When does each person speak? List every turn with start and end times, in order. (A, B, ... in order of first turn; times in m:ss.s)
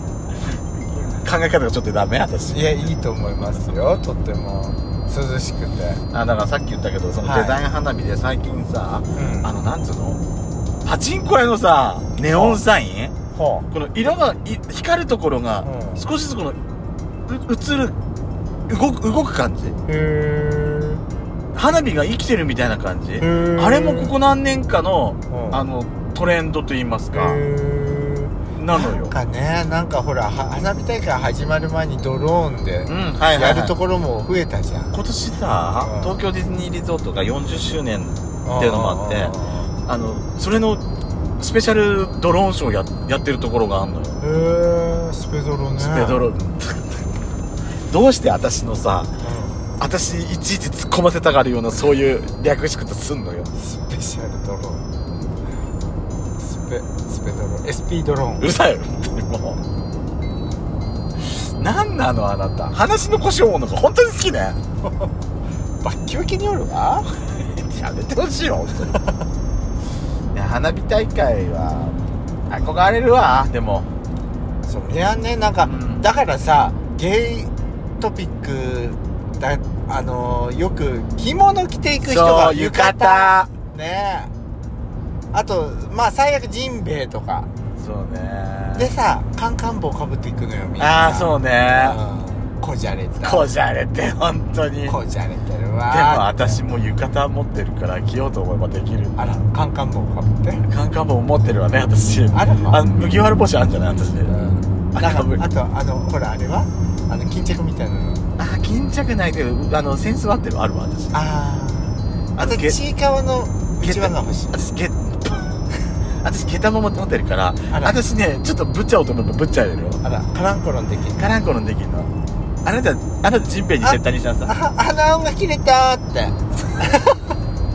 0:00.7-0:02.6 A
0:02.5-0:06.0 B
0:06.1-0:10.2 A
0:07.2-0:07.6 B
0:09.2-0:09.5 B
0:10.8-0:13.2 A
0:12.2-0:12.6 B
0:13.3-0:13.7 B
0:13.7-0:16.6 A
0:15.6-0:16.1 B
0:17.3-0:18.0 A
0:18.7-0:19.8 A
0:19.8-0:21.0 B
0:21.5-0:27.4 A
0:23.2-0:24.1 B
0:25.3-0:25.6 B
0:27.1-0:35.0 B
0:28.6-0:29.1 A
0:32.9-0:33.7 A
0:34.9-0:40.8 A
0:35.7-0:36.2 B
0:38.4-0:39.7 B
0:41.4-0:44.2 A
0:44.2-0:46.2 B
0:45.8-0:47.0 A
0:47.9-0:49.1 A
0:49.2-0:49.7 B
0:49.8-0:53.5 A
0:53.5-0:54.9 B
0:56.4-0:58.5 B
0:58.4-0:59.6 A
1:01.4-1:04.6 A
1:04.8-1:05.1 B
1:05.8-1:07.1 B
1:07.3-1:09.0 A
1:10.3-1:12.0 A
1:12.5-1:13.9 A
1:14.7-1:24.3 B
1:15.6-1:16.1 A
1:22.0-1:23.5 A
1:25.3-1:27.5 B
1:27.8-1:28.9 A
1:28.8-1:33.5 B
1:30.8-1:32.0 A
1:33.2-1:35.0 A
1:34.8-1:36.6 B
1:35.9-1:39.2 A
1:39.2-1:40.6 B
1:40.7-1:44.3 A
1:42.3-1:42.8 B
1:44.3-1:48.4 B
1:44.9-1:45.4 A
1:48.4-1:51.2 A
1:51.1-1:54.7 B
1:52.4-1:52.8 A
1:53.8-1:55.6 A
1:56.2-2:00.0 A
1:57.7-1:58.0 B
2:00.0-2:01.3 B
2:01.2-2:02.1 A
2:02.6-2:04.5 A
2:03.8-2:07.3 B